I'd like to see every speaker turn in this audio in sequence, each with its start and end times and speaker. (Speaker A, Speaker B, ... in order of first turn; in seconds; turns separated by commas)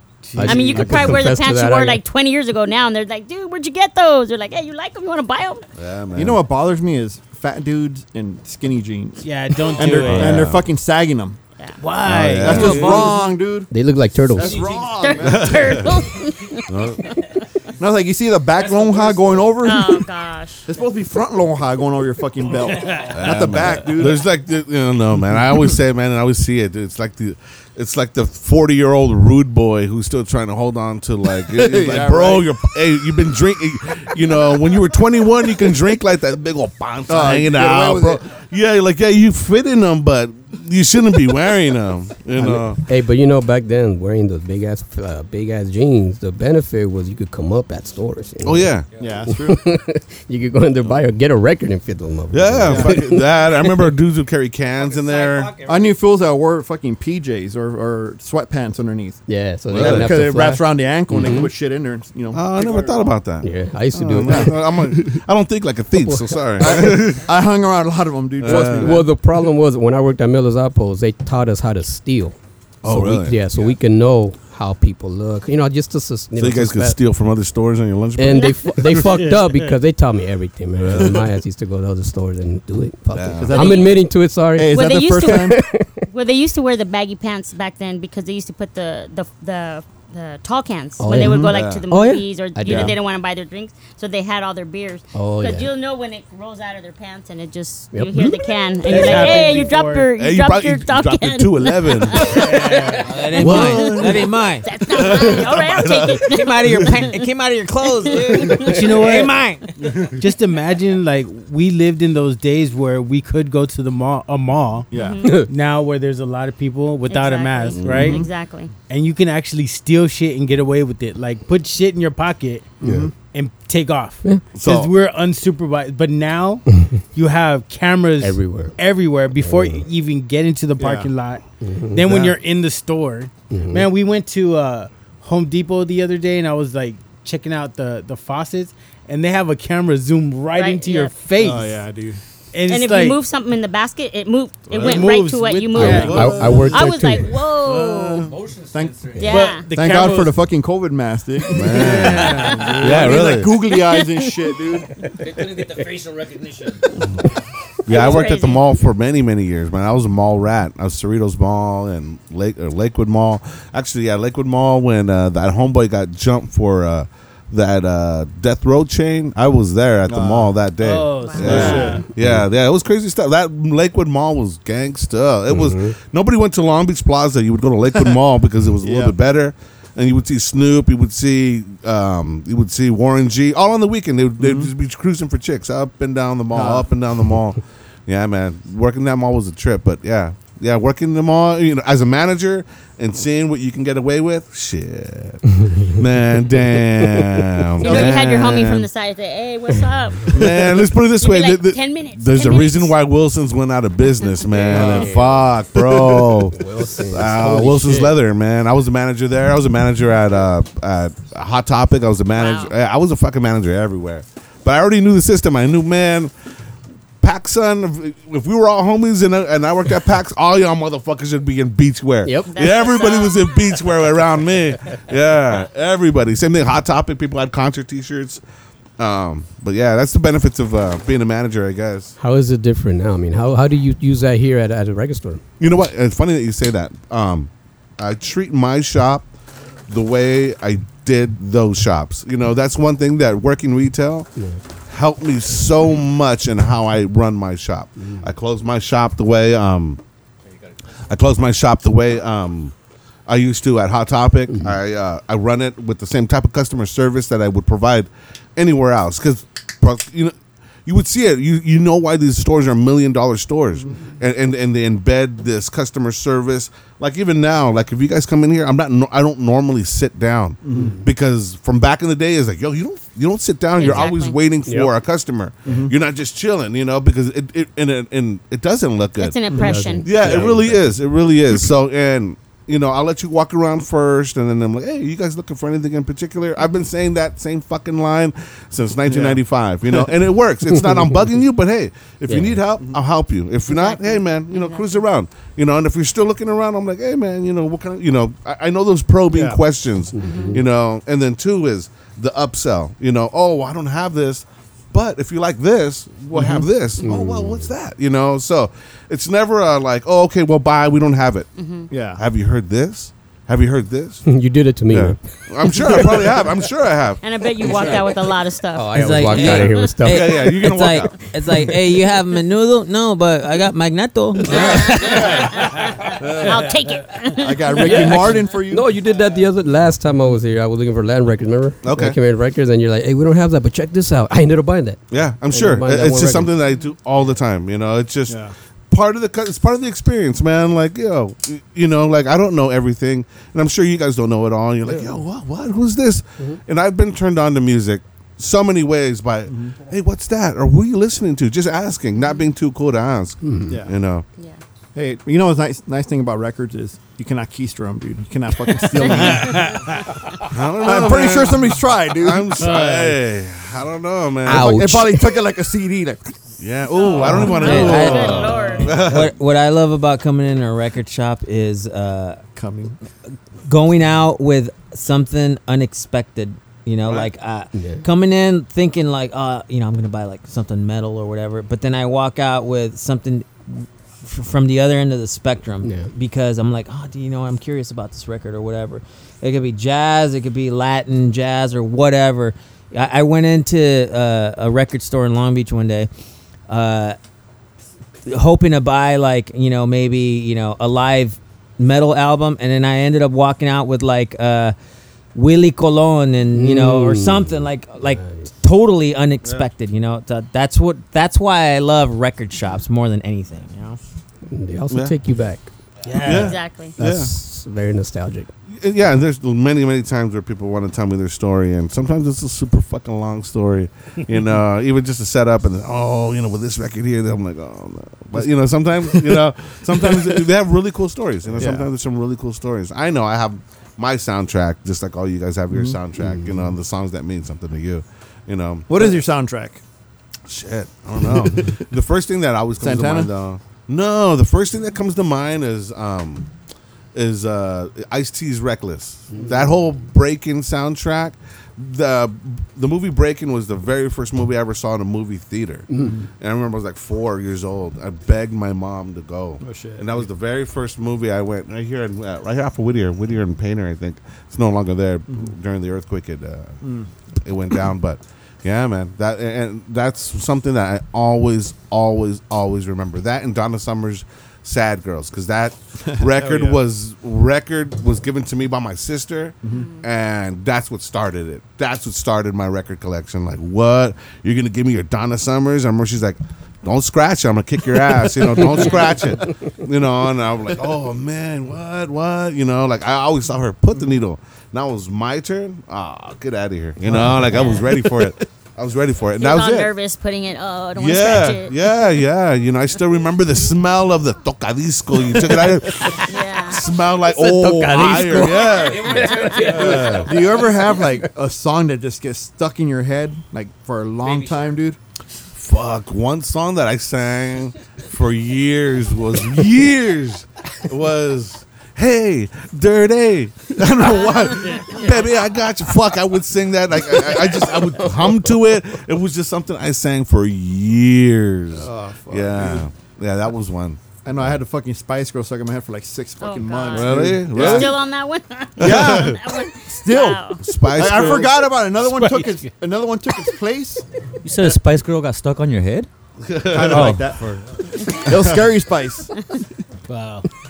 Speaker A: 0.2-1.1, Speaker B: 0.3-2.0, Speaker C: 0.4-5.6, Speaker D: 5.8-6.4, Speaker E: 6.1-11.4, Speaker A: 9.2-10.5, Speaker D: 9.8-10.7, Speaker C: 11.6-11.9, Speaker A: 11.8-13.1, Speaker D: 12.0-13.1, Speaker E: 12.4-13.7, Speaker B: 12.5-13.1, Speaker B: 13.7-14.7, Speaker E: 14.3-15.8, Speaker F: 14.4-14.9, Speaker C: 14.9-17.3, Speaker D: 15.2-15.9, Speaker D: 16.7-17.1, Speaker E: 17.8-20.1, Speaker F: 18.6-19.6, Speaker C: 19.6-20.6, Speaker E: 20.7-24.2, Speaker A: 22.5-23.2, Speaker D: 23.1-42.8, Speaker E: 31.4-32.5, Speaker E: 37.1-38.2, Speaker B: 42.4-53.9, Speaker D: 48.4-48.9, Speaker E: 49.0-49.7, Speaker D: 52.3-55.6, Speaker E: 52.7-53.0, Speaker F: 54.8-56.0, Speaker E: 55.6-62.5, Speaker B: 59.3-61.5, Speaker D: 59.7-60.3, Speaker D: 61.1-61.5, Speaker D: 62.3-67.3, Speaker F: 62.6-63.0, Speaker B: 63.4-64.7, Speaker E: 64.2-65.2, Speaker B: 66.0-67.0, Speaker E: 66.6-69.0, Speaker D: 68.4-69.0, Speaker B: 68.4-77.0, Speaker D: 72.8-73.4, Speaker D: 76.4-79.1, Speaker B: 78.2-86.0, Speaker C: 78.3-78.9, Speaker A: 79.0-79.8, Speaker D: 80.9-81.1, Speaker D: 83.1-83.6, Speaker E: 83.3-84.0, Speaker C: 83.5-83.9, Speaker E: 84.6-85.6, Speaker C: 84.7-85.6, Speaker C: 86.1-104.1, Speaker B: 91.0-93.0, Speaker E: 91.1-91.5, Speaker D: 91.5-91.8, Speaker B: 95.2-95.7, Speaker B: 97.9-98.4, Speaker A: 98.9-100.1, Speaker D: 100.2-102.5, Speaker A: 102.2-103.3, Speaker G: 103.0-104.7, Speaker D: 103.3-104.3, Speaker C: 104.6-107.3, Speaker D: 104.9-107.0, Speaker G: 106.2-109.7, Speaker C: 108.0-108.9, Speaker A: 108.5-109.3, Speaker D: 109.8-110.2, Speaker A: 110.1-118.2, Speaker E: 114.9-115.2, Speaker C: 114.9-115.5, Speaker B: 115.2-115.5, Speaker C: 117.1-118.7, Speaker D: 117.8-118.2, Speaker E: 117.9-118.3, Speaker A: 118.9-122.7, Speaker B: 122.8-123.1, Speaker E: 122.8-123.1, Speaker A: 123.3-131.4, Speaker D: 124.5-124.9, Speaker B: 128.2-128.8, Speaker B: 129.4-129.8, Speaker E: 130.8-131.1, Speaker B: 131.6-132.1, Speaker A: 131.9-141.8, Speaker D: 132.0-132.4, Speaker B: 133.5-133.9, Speaker C: 140.6-141.2, Speaker E: 141.4-142.2, Speaker A: 142.5-143.2, Speaker C: 142.7-148.3, Speaker D: 144.7-145.1, Speaker A: 144.7-146.9, Speaker B: 145.7-147.4, Speaker D: 145.8-146.4, Speaker E: 146.4-146.7, Speaker E: 147.8-155.1, Speaker F: 148.3-149.3, Speaker C: 149.2-149.7, Speaker A: 149.3-150.3, Speaker D: 151.5-153.5, Speaker C: 151.6-154.5, Speaker A: 151.7-152.7, Speaker F: 155.2-156.9, Speaker D: 157.9-198.9, Speaker C: 157.9-158.7, Speaker E: 170.1-170.6, Speaker A: 170.8-172.1, Speaker C: 171.1-171.7, Speaker E: 171.4-172.1, Speaker B: 171.5-172.5, Speaker B: 175.5-176.0, Speaker E: 178.8-179.2, Speaker E: 184.4-184.7, Speaker E: 186.5-186.9, Speaker B: 195.6-195.9, Speaker B: 197.0-198.1, Speaker C: 197.8-200.6, Speaker D: 200.3-216.3, Speaker C: 201.2-202.9, Speaker C: 204.2-205.1, Speaker E: 204.7-205.1, Speaker B: 204.7-205.4, Speaker E: 205.8-206.2, Speaker B: 206.5-208.2, Speaker C: 212.3-212.7, Speaker D: 217.2-228.4, Speaker B: 222.2-222.5, Speaker C: 222.5-223.8, Speaker D: 229.0-232.2, Speaker B: 232.2-235.4, Speaker D: 235.6-239.3, Speaker D: 239.9-244.3, Speaker D: 244.9-250.0, Speaker B: 248.0-248.3, Speaker D: 251.1-252.7, Speaker D: 253.3-260.4, Speaker B: 254.5-254.8, Speaker D: 260.9-311.5, Speaker E: 270.6-271.0, Speaker C: 273.7-274.6, Speaker B: 274.6-274.9, Speaker E: 275.7-276.0, Speaker C: 279.2-280.2, Speaker B: 279.5-280.8, Speaker E: 280.2-280.6, Speaker E: 289.1-290.1, Speaker B: 290.7-291.2, Speaker B: 292.3-292.6, Speaker C: 293.7-295.1, Speaker E: 299.3-299.6, Speaker B: 300.1-300.7, Speaker C: 300.1-300.7, Speaker E: 306.4-306.7, Speaker B: 307.0-307.7, Speaker C: 311.6-311.9, Speaker E: 311.9-312.2, Speaker D: 312.1-314.2, Speaker B: 314.2-316.3, Speaker D: 314.9-318.0, Speaker C: 317.2-319.7, Speaker B: 317.8-318.0, Speaker B: 318.7-320.5, Speaker G: 318.9-325.5, Speaker D: 320.0-321.1, Speaker C: 324.5-328.4, Speaker D: 325.1-325.5, Speaker D: 326.2-326.6, Speaker E: 327.4-328.9, Speaker B: 327.9-336.6, Speaker D: 331.8-332.2, Speaker D: 335.1-354.3, Speaker E: 338.3-338.5, Speaker B: 344.9-345.2, Speaker E: 349.5-349.8, Speaker B: 353.4-353.8, Speaker E: 353.7-354.0, Speaker E: 354.9-359.8, Speaker A: 358.9-360.1, Speaker C: 359.3-359.6, Speaker D: 360.4-364.9, Speaker E: 360.8-362.8, Speaker A: 362.6-363.1, Speaker E: 364.4-366.3, Speaker B: 364.5-365.4, Speaker D: 366.6-369.3, Speaker C: 366.9-369.0, Speaker E: 367.2-367.8, Speaker G: 367.5-372.4, Speaker E: 372.6-373.0, Speaker G: 373.7-396.1, Speaker B: 377.7-378.1, Speaker B: 385.8-386.1, Speaker G: 396.7-397.2, Speaker G: 398.3-404.8, Speaker G: 405.4-414.0, Speaker B: 406.5-408.5, Speaker B: 414.5-415.7, Speaker A: 416.1-416.6, Speaker D: 416.2-417.3, Speaker C: 416.3-417.0, Speaker B: 417.0-418.5, Speaker D: 418.7-439.2, Speaker E: 429.1-430.5, Speaker E: 431.6-431.9, Speaker E: 435.7-436.0, Speaker B: 436.2-436.7, Speaker E: 438.9-439.8, Speaker D: 440.5-446.5, Speaker E: 441.2-441.9, Speaker E: 442.8-443.3, Speaker D: 447.1-466.8, Speaker B: 455.9-456.2, Speaker E: 459.6-460.3, Speaker E: 466.8-467.1, Speaker D: 467.4-499.9, Speaker E: 476.1-476.8, Speaker C: 479.7-480.1, Speaker E: 488.0-489.4, Speaker E: 497.0-498.4, Speaker C: 497.5-497.9, Speaker C: 499.3-501.9, Speaker D: 500.9-510.3, Speaker C: 506.2-506.9, Speaker B: 507.2-509.5, Speaker F: 508.4-510.7, Speaker C: 509.1-510.0, Speaker E: 509.6-515.0, Speaker F: 514.2-514.8, Speaker D: 515.6-534.5, Speaker B: 528.0-528.4, Speaker E: 531.7-532.9, Speaker E: 534.2-538.0, Speaker C: 536.4-540.6, Speaker D: 536.9-538.0, Speaker D: 538.8-539.4, Speaker E: 538.8-544.0, Speaker D: 540.6-541.8, Speaker A: 542.0-542.6, Speaker F: 544.4-546.1, Speaker D: 546.4-547.6, Speaker E: 546.6-549.3, Speaker F: 546.9-547.3, Speaker A: 550.1-550.5